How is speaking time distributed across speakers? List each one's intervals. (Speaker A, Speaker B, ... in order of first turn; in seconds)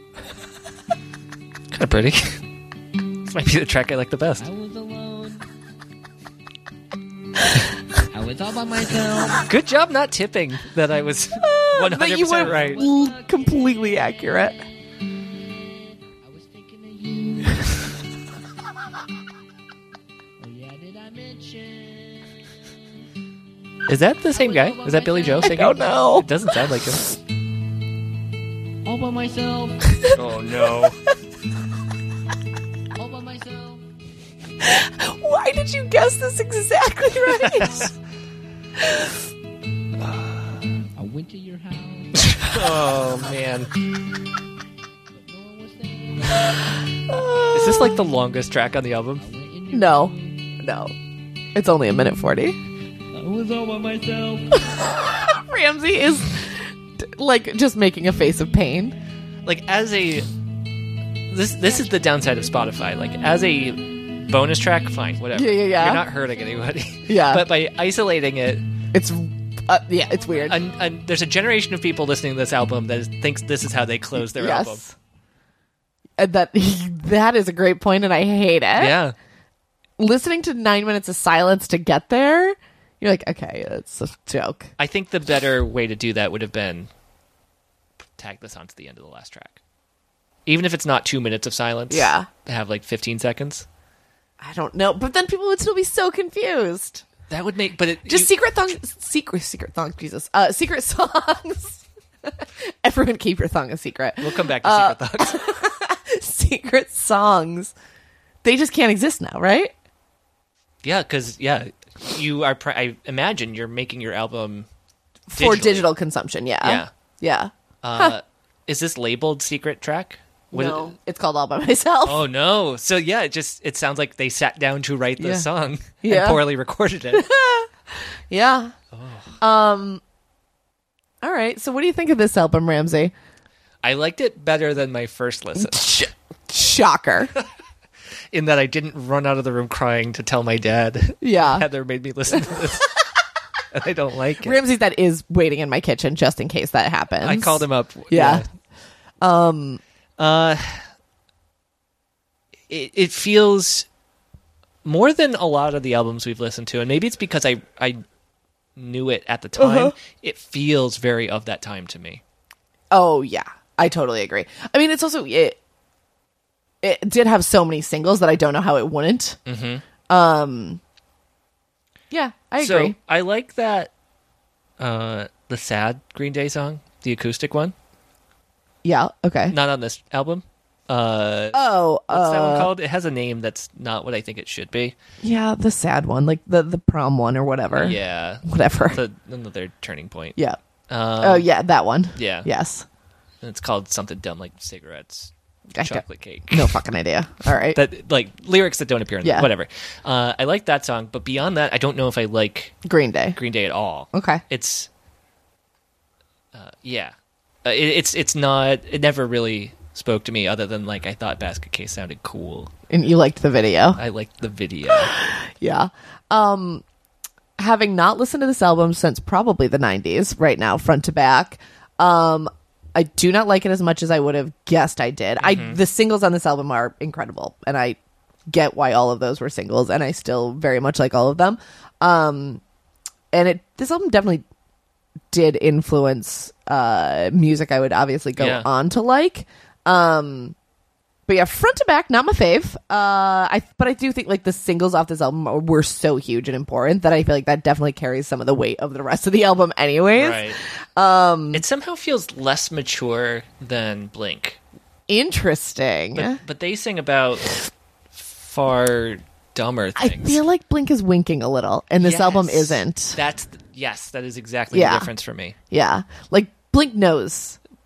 Speaker A: 1.7-2.4, 3.2-4.5, 9.5-12.8, 23.9-27.0, 30.1-31.0, 37.3-37.9, 42.3-43.7, 47.5-49.2, 59.5-60.3, 61.3-68.7, 70.4-74.8, 78.8-79.2, 84.8-86.9, 88.2-89.6, 90.5-93.7, 97.3-98.3, 104.2-105.4, 110.8-114.7, 115.3-115.9, 116.6-116.9, 117.8-120.9, 122.1-127.3, 128.9-129.4, 133.8-135.8, 138.3-142.9, 143.7-144.6, 147.2-148.5, 150.2-150.8, 152.7-153.9, 154.8-158.0, 158.8-162.2, 169.5-169.8, 172.6-173.9, 174.8-177.7, 179.5-185.0, 187.7-190.4, 190.9-191.5, 192.2-192.5, 193.4-196.7, 197.7-202.8, 203.3-204.9, 206.6-207.1, 207.7-212.7, 214.0-215.1, 225.4-225.8, 238.4-238.7, 250.2-250.6, 251.5-254.6, 256.2-257.6, 258.1-260.4, 262.0-265.6
Speaker B: 4.4-5.5, 8.1-9.5, 12.5-13.6, 16.2-17.9, 20.4-22.3, 24.3-25.9, 28.9-30.1, 33.0-33.9, 41.0-43.0, 45.1-46.6, 49.2-50.6, 53.1-54.7, 61.6-62.6
Speaker C: 11.4-14.6, 25.4-26.3, 34.6-37.9, 38.8-39.2, 47.1-48.0, 49.7-50.9, 51.5-52.6, 54.5-59.0, 65.3-66.1, 67.1-67.5, 68.9-70.6, 74.2-74.9, 76.2-79.0, 80.0-84.7, 91.9-92.3, 94.4-97.1, 98.1-107.7, 108.4-109.7, 115.3-118.1, 120.5-122.2, 125.2-125.5, 126.0-126.4, 127.1-128.7, 129.4-130.0, 131.2-133.1, 135.6-137.3, 141.2-141.7, 142.3-143.0, 144.4-148.4, 149.2-149.8, 159.6-159.9, 162.9-165.6, 166.8-169.4, 170.1-170.8, 172.1-173.0, 178.8-179.6, 181.5-182.7, 185.2-189.0, 191.2-192.9, 195.8-197.8, 199.2-199.5, 202.8-203.4, 204.1-204.4, 212.9-214.0, 214.9-216.8, 217.6-228.0, 228.5-232.6, 233.3-234.4, 235.3-240.6, 241.3-251.6, 255.1-256.4, 260.0-263.2, 264.7-265.1, 265.7-267.6